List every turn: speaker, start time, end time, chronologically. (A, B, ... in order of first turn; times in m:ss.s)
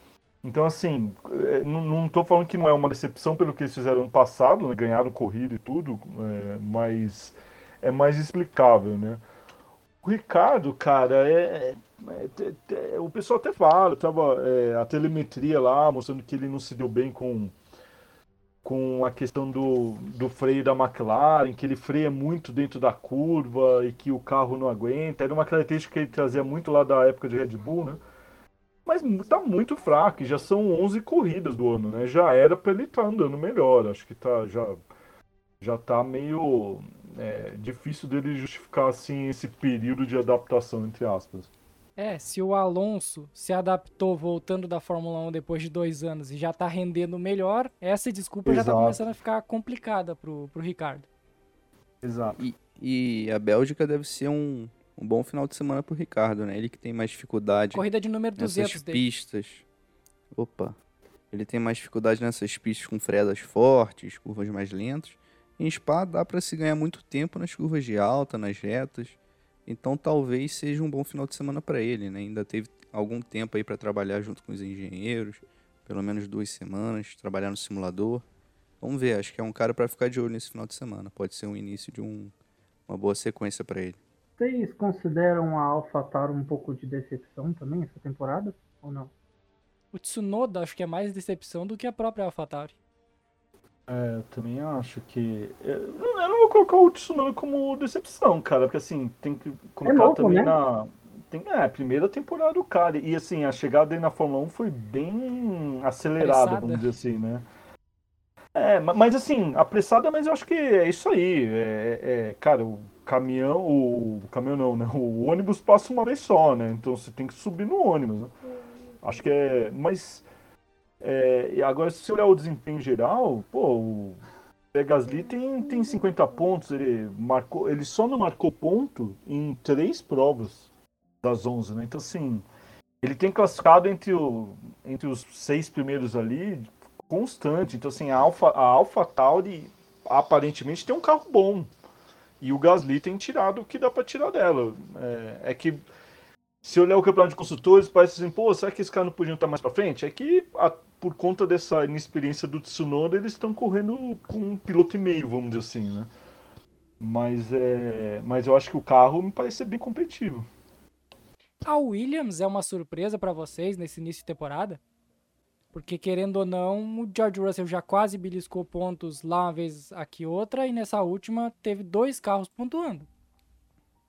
0:00.4-0:09.2 A
0:10.0-0:17.6 A
0:18.6-0:28.0 A
0:28.9-0:34.8 A
0:35.6-0:41.5 A
0:42.0-0:51.1 B
0:48.5-0:49.0 A
0:52.0-0:52.4 A
0:52.4-0:57.8 C
0:57.7-0:59.0 B
0:58.4-0:59.6 C
1:00.3-1:00.8 C
1:01.3-1:18.2 C
1:18.8-1:22.3 C
1:22.9-1:24.0 C
1:24.4-1:29.1 D
1:29.9-1:32.8 B
1:33.9-1:47.4 A
1:39.8-1:40.6 D
1:46.2-1:46.8 B
1:48.6-1:58.3 A
1:59.0-2:00.2 A
2:01.0-2:04.2 A
2:04.7-2:10.7 A
2:11.2-2:12.4 A
2:13.0-2:21.7 A
2:22.4-2:25.8 A
2:26.6-2:36.1 A
2:37.0-2:40.5 A
2:41.6-2:44.8 B
2:45.7-2:53.1 B